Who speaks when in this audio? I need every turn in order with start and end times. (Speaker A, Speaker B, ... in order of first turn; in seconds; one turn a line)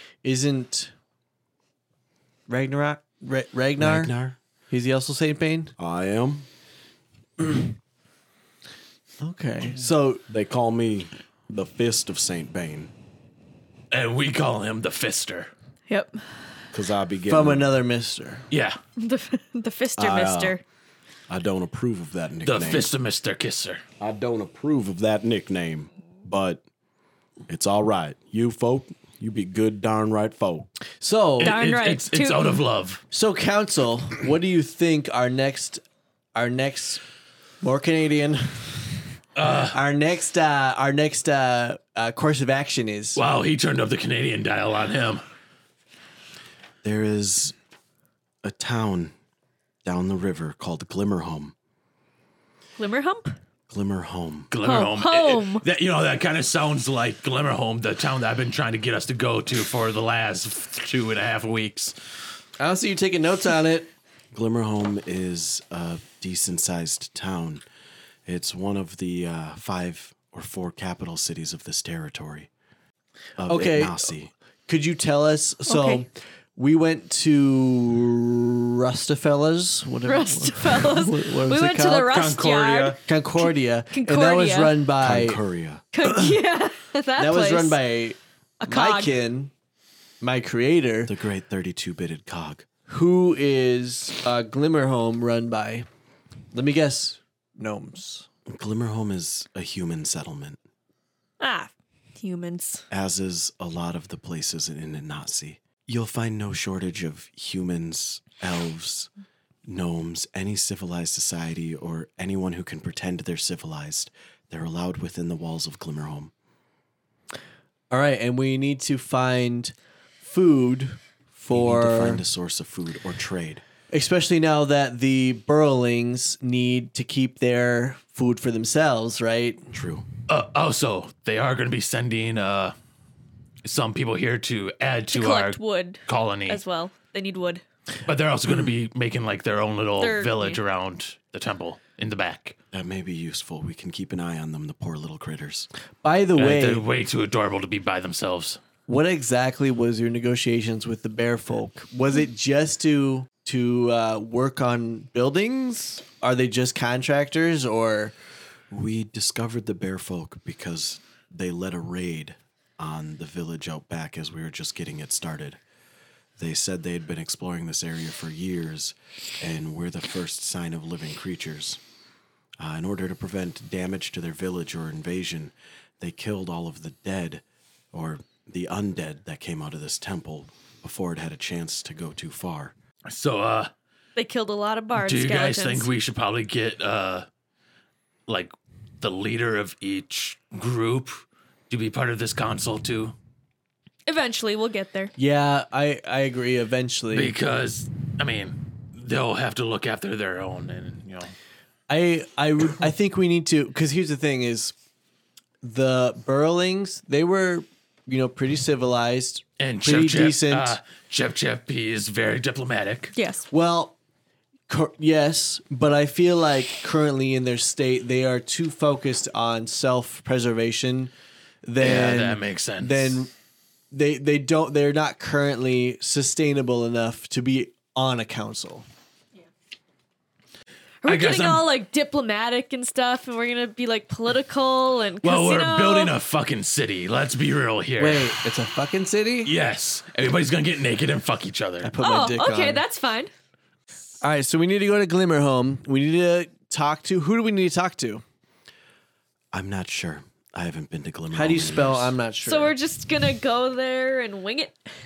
Speaker A: 0.2-0.9
Speaker A: 2.5-4.1
Speaker B: 3.8-4.4
Speaker A: 4.7-5.7
Speaker B: 5.8-6.5
Speaker A: 9.2-10.2
Speaker B: 10.3-12.9
Speaker C: 13.9-15.5
Speaker D: 15.9-16.4
Speaker B: 16.7-17.7
Speaker A: 17.3-18.5
Speaker C: 18.5-18.8
Speaker D: 19.0-20.6
Speaker B: 19.9-20.6
Speaker B: 21.3-22.9
Speaker C: 22.4-23.8
Speaker B: 24.0-26.6
Speaker B: 27.5-30.7
Speaker A: 31.0-31.5
Speaker C: 31.4-33.0
Speaker D: 31.4-32.5
Speaker A: 33.1-35.8
Speaker A: 36.3-37.0
Speaker A: 37.6-39.0
Speaker C: 39.4-39.8
Speaker A: 39.6-43.2
Speaker C: 43.1-45.2
Speaker B: 46.8-47.5
Speaker B: 48.4-49.1
Speaker B: 49.8-51.5
Speaker D: 52.8-53.4
Speaker B: 53.7-54.5
Speaker C: 54.5-61.9
Speaker D: 54.6-55.6
Speaker A: 62.6-63.9
Speaker B: 64.3-67.6
Speaker B: 68.2-72.5
Speaker B: 73.4-74.3
Speaker A: 73.4-74.1
Speaker A: 74.7-82.2
Speaker D: 75.7-76.0
Speaker D: 80.0-83.0
Speaker C: 82.1-83.0
Speaker A: 83.0-85.4
Speaker D: 83.9-84.8
Speaker B: 85.0-85.8
Speaker D: 85.9-87.8
Speaker A: 86.0-86.3
Speaker A: 87.2-89.5
Speaker D: 88.6-89.1
Speaker A: 90.2-91.1
Speaker B: 91.0-92.7
Speaker A: 92.9-95.9
Speaker A: 96.5-98.3
Speaker B: 98.5-100.6
Speaker D: 101.4-102.8
Speaker B: 102.9-109.1
Speaker B: 109.7-116.3
Speaker A: 117.9-122.2
Speaker B: 121.5-123.6
Speaker A: 123.9-129.7
Speaker B: 129.7-130.1
Speaker C: 130.3-132.7
Speaker C: 133.6-136.6
Speaker D: 135.1-137.6
Speaker C: 138.1-142.6
Speaker D: 140.0-140.6
Speaker B: 142.7-145.7
Speaker A: 146.0-146.8
Speaker C: 146.4-148.6
Speaker A: 148.8-158.1
Speaker B: 158.7-165.6
Speaker B: 166.4-171.8
Speaker B: 172.6-182.7
Speaker C: 183.1-183.7
Speaker D: 184.2-185.9
Speaker C: 184.9-187.3
Speaker C: 188.3-193.1
Speaker D: 194.1-195.1
Speaker A: 195.2-197.3
Speaker C: 197.1-201.3
Speaker A: 201.9-204.7
Speaker A: 205.6-210.8
Speaker C: 209.6-213.1
Speaker D: 213.1-213.5
Speaker A: 213.5-214.0
Speaker A: 214.7-221.1
Speaker A: 221.6-223.3
Speaker C: 221.8-223.2
Speaker A: 223.9-228.8
Speaker D: 231.0-236.1
Speaker C: 231.0-231.7
Speaker C: 235.2-238.3
Speaker A: 238.0-239.5
Speaker C: 239.4-241.9
Speaker A: 241.8-242.8
Speaker D: 242.0-243.3
Speaker A: 244.2-248.2
Speaker B: 249.5-252.1
Speaker A: 251.3-252.8
Speaker D: 252.4-254.8